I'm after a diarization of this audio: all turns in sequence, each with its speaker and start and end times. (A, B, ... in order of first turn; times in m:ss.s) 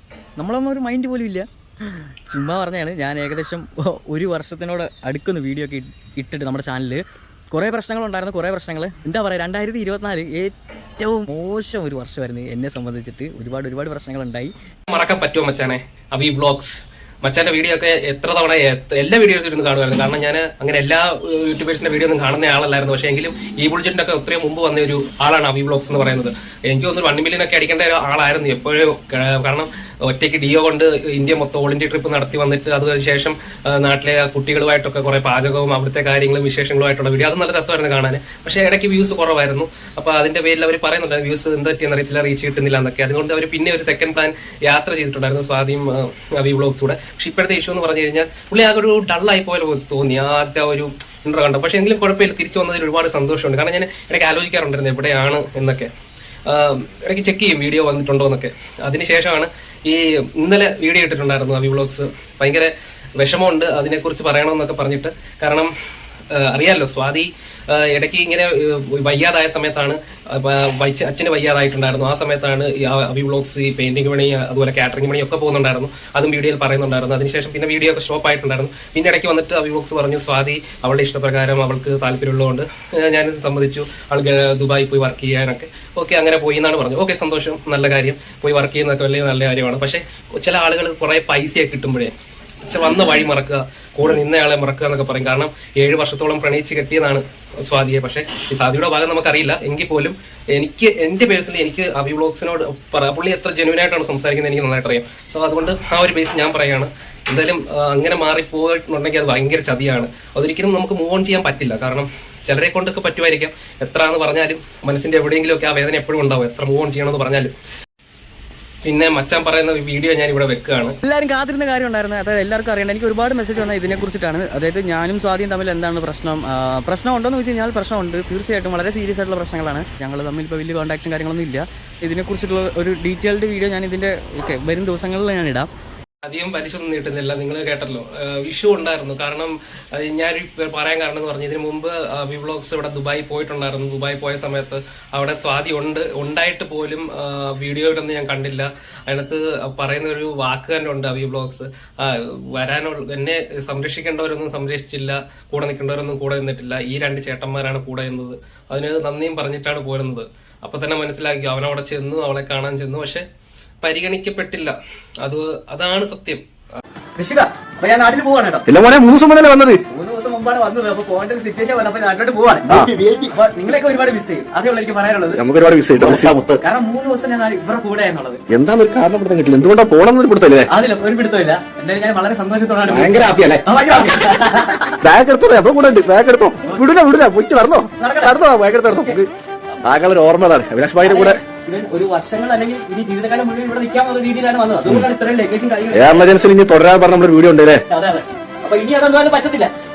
0:00.4-0:01.5 A
0:02.3-0:14.5 A
0:14.9-0:55.9 B
0:56.5-1:05.7 B
1:06.3-1:57.5 B
1:58.8-2:01.0 B
2:01.0-2:15.7 A
2:16.2-2:43.3 B
2:43.8-2:46.4 B
2:47.2-2:48.7 A
2:48.7-2:49.8 C
2:49.9-2:55.4 A
2:55.3-2:56.5 C
2:56.6-2:58.4 A
2:58.5-3:00.7 C
3:00.7-3:04.9 A
3:02.9-3:03.6 C
3:05.0-3:09.3 C
3:08.0-3:08.4 A
3:09.8-3:11.4 C
3:11.0-3:16.3 A
3:15.9-3:17.8 C
3:17.9-3:19.7 A